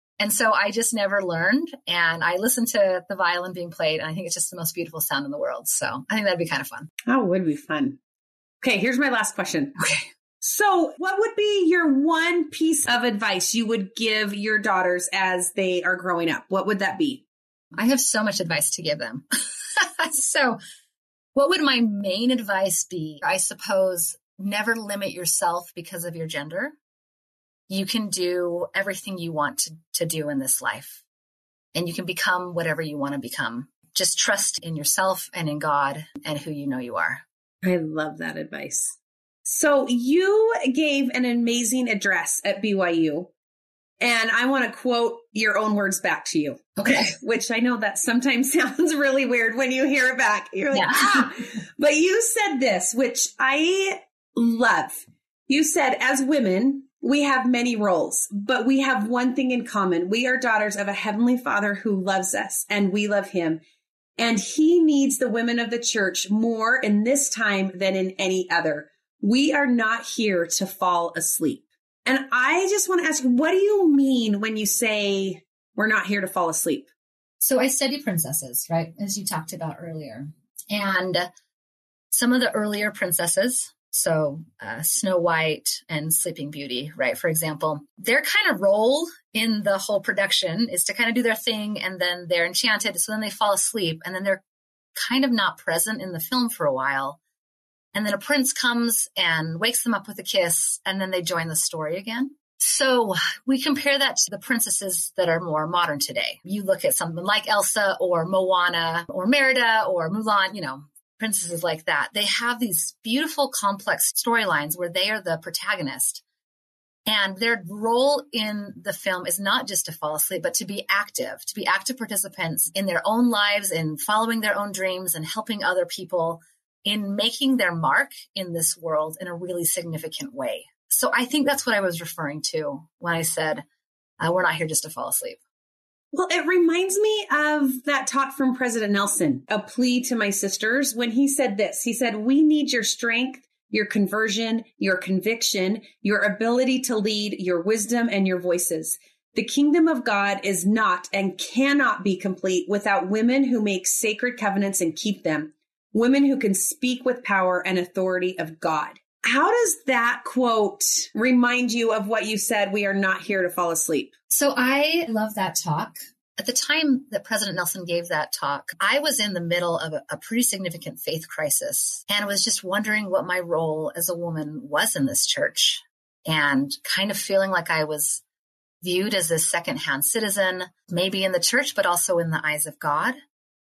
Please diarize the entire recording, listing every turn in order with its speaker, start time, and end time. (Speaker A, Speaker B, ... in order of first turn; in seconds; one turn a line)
Speaker A: 0.2-6.9
Speaker B: 7.1-8.0
Speaker B: 8.6-9.8
Speaker A: 9.8-10.1
Speaker B: 10.4-17.2
Speaker A: 17.7-20.6
Speaker A: 21.4-26.8
Speaker A: 27.7-31.0
Speaker A: 31.7-37.2
Speaker B: 37.6-38.9
Speaker B: 39.5-43.3
Speaker B: 44.0-63.6
Speaker A: 46.8-47.1
Speaker A: 50.7-51.3
Speaker B: 64.2-76.9
Speaker A: 77.4-81.3
Speaker A: 82.1-94.4
Speaker A: 95.0-97.2
Speaker A: 97.9-116.2
Speaker A: 117.1-133.7
Speaker A: 134.2-135.4
Speaker B: 136.1-164.1
Speaker A: 164.3-178.2
Speaker A: 178.8-183.2